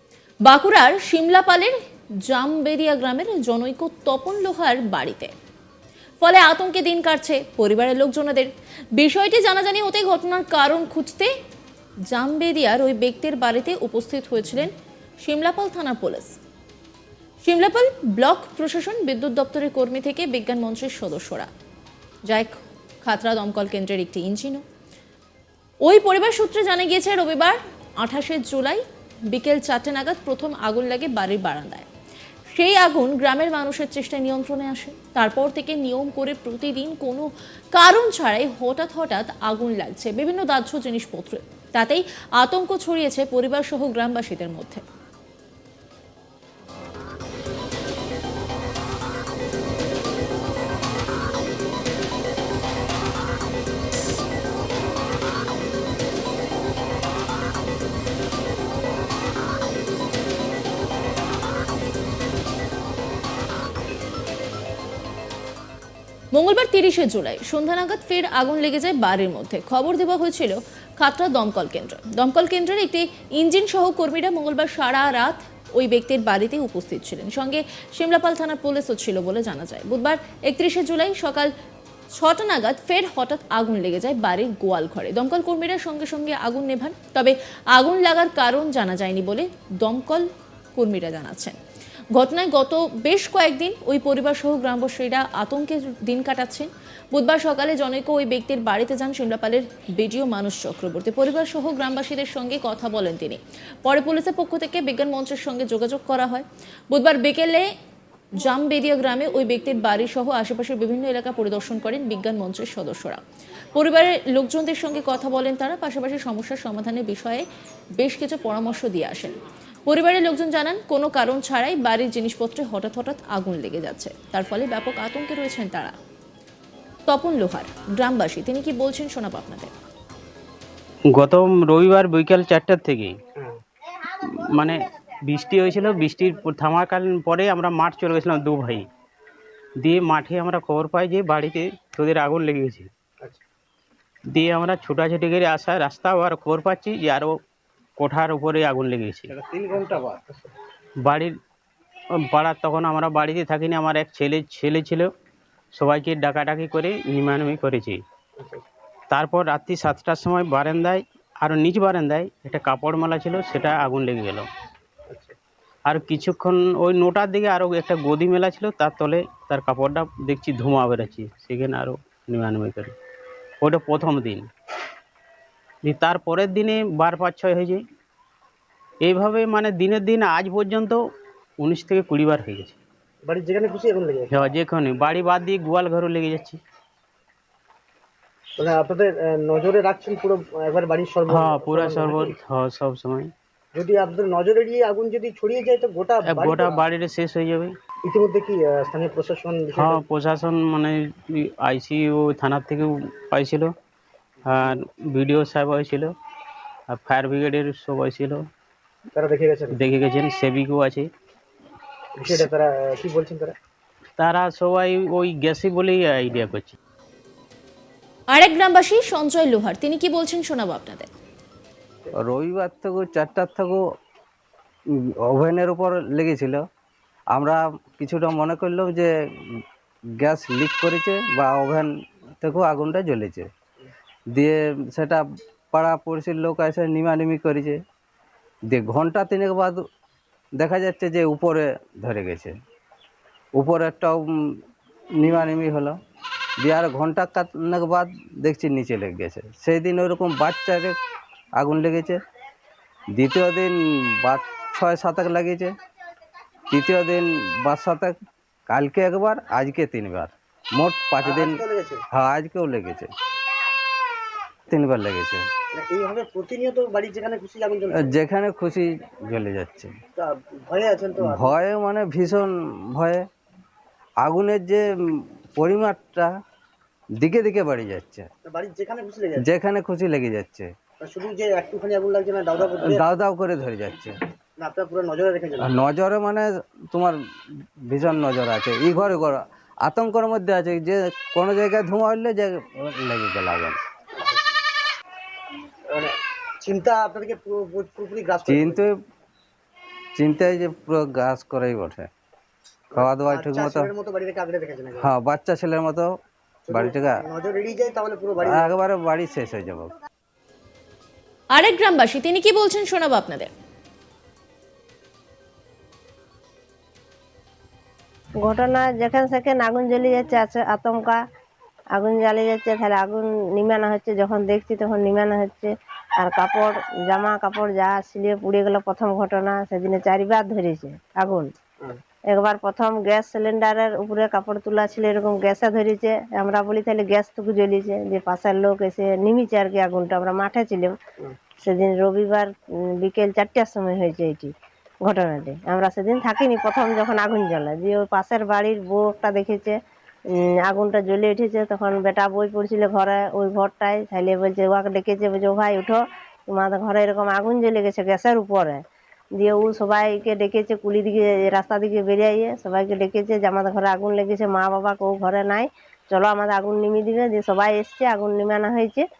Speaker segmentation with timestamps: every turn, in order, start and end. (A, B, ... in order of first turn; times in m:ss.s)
0:00.5-0:01.7 A
0:02.3-0:05.3 A
0:06.2-0:11.3 A
0:12.1-0:14.7 A
0:15.2-0:16.4 A
0:17.4-0:21.5 A
0:22.3-0:24.6 A
0:25.8-0:31.9 A
0:32.5-0:44.8 A
1:06.3-1:21.5 A
1:22.2-1:31.6 A
1:32.1-1:47.7 A
1:48.4-1:53.2 A
1:53.7-1:57.4 A
1:58.0-2:05.9 A
2:07.1-2:09.7 A
2:11.1-2:13.2 B
2:14.5-2:18.8 B
2:19.8-2:22.9 B
2:24.3-2:27.4 B
2:28.0-2:29.3 B
2:29.3-2:30.2 C
2:29.7-2:30.5 D
2:31.0-2:31.3 B
2:32.3-2:35.1 B
2:35.8-2:38.0 B
2:38.4-2:38.6 D
2:39.1-2:44.5 B
2:45.1-2:45.4 D
2:45.9-2:52.9 B
2:53.6-2:54.5 B
2:55.8-2:57.8 B
2:59.0-3:01.0 B
3:01.6-3:02.8 B
3:03.3-3:04.3 D
3:04.3-3:06.6 B
3:08.6-3:12.4 D
3:11.3-3:13.3 B
3:13.7-3:16.8 D
3:16.2-3:17.8 B
3:18.0-3:20.0 D
3:19.8-3:23.7 B
3:24.5-3:26.1 B
3:26.9-3:28.4 B
3:29.1-3:29.7 D
3:29.8-3:31.1 B
3:32.2-3:33.6 D
3:34.2-3:36.8 B
3:38.3-3:41.1 A
3:42.2-3:43.8 C
3:45.3-3:46.6 C
3:47.3-3:49.1 C
3:50.2-3:51.9 C
3:52.4-3:53.5 C
3:54.3-3:57.8 C
3:58.7-3:59.8 C
4:00.6-4:02.5 C
4:03.6-4:04.2 C
4:05.2-4:06.0 C
4:06.6-4:11.0 C
4:11.6-4:12.2 C
4:13.2-4:15.7 C
4:16.7-4:18.1 C
4:18.7-4:21.6 C
4:21.2-4:22.0 D
4:22.1-4:23.1 C
4:24.7-4:25.4 C
4:25.7-4:28.1 D
4:27.9-4:29.9 C
4:30.2-4:31.6 D
4:31.2-4:33.2 C
4:34.2-4:36.3 C
4:37.2-4:38.3 C
4:38.5-4:39.5 D
4:39.4-4:40.7 C
4:41.0-4:43.0 D
4:42.6-4:44.1 C
4:44.6-4:45.7 D
4:45.6-4:47.2 C
4:47.9-4:53.8 C
4:54.2-4:54.6 D
4:55.9-4:58.8 D
4:58.5-4:58.9 C
5:00.2-5:02.1 C
5:02.9-5:05.1 D
5:03.0-5:03.9 C
5:05.0-5:06.1 C
5:06.7-5:08.7 D
5:06.7-5:07.2 C
5:08.4-5:09.9 C
5:11.5-5:13.5 A
5:18.4-5:21.2 E
5:22.0-5:31.5 E
5:32.3-5:41.0 E
5:41.6-5:44.5 E
5:45.0-5:49.8 E
5:50.4-5:58.8 E
5:59.4-6:09.0 E